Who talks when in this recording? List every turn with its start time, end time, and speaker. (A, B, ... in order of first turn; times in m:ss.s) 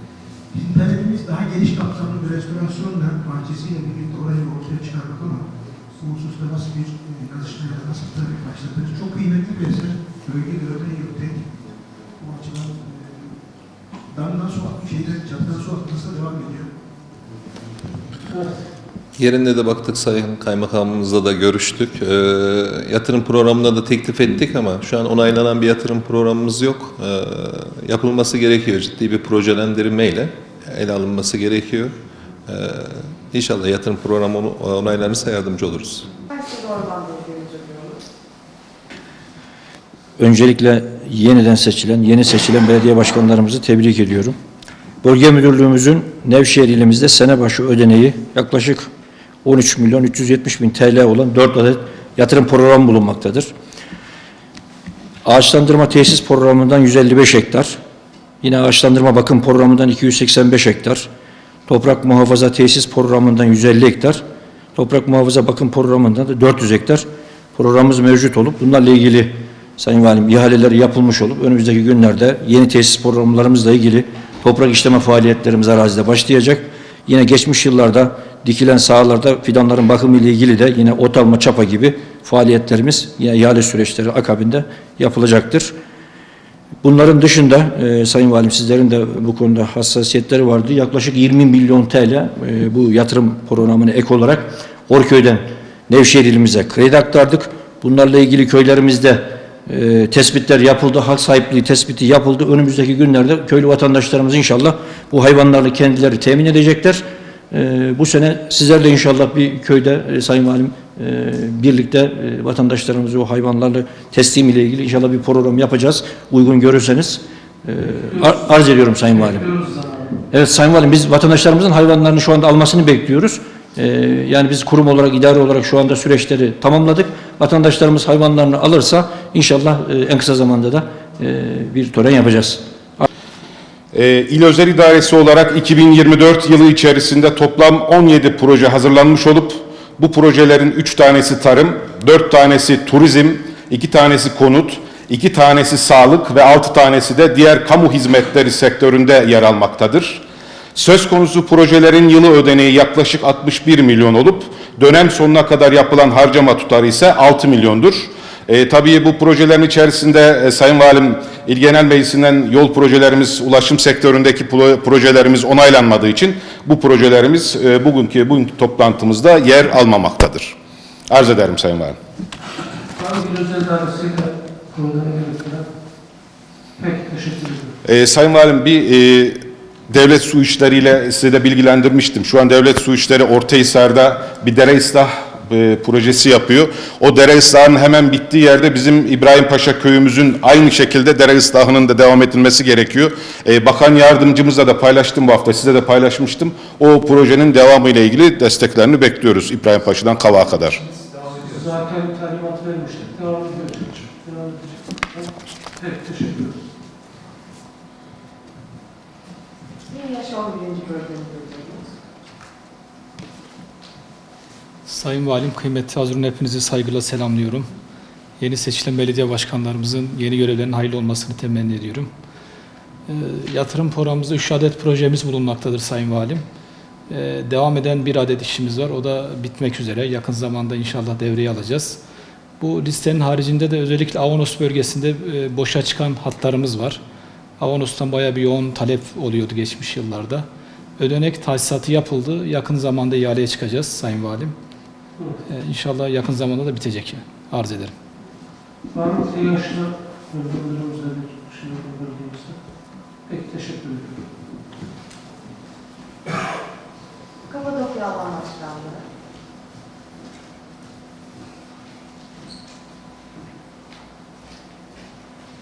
0:00.5-0:13.4 A
0:14.1-0:16.7 A
0:18.3-0:18.6 B
0:19.2-0:36.1 C
0:36.3-0:38.0 D
0:40.2-0:44.4 E
0:45.0-0:48.9 E
0:49.4-0:53.5 E
0:55.2-0:57.8 E
0:58.4-1:01.1 E
1:01.7-1:25.7 E
1:26.8-1:59.5 E
1:58.0-2:00.2 B
2:00.3-2:13.1 E
2:13.9-2:50.5 F
2:51.1-2:52.0 F
2:52.9-2:55.7 B
2:56.8-2:57.7 B
2:57.8-3:20.8 F
3:21.3-3:26.6 B
3:29.9-3:31.9 D
3:34.8-3:37.7 G
3:38.4-3:42.1 G
3:43.1-3:46.4 G
3:47.1-3:52.0 G
3:52.6-3:57.0 G
3:57.6-4:00.5 G
4:01.0-4:04.5 G
4:05.2-4:05.4 B
4:05.5-4:07.9 G
4:08.9-4:12.6 B
4:13.3-4:14.2 B
4:17.4-4:19.0 D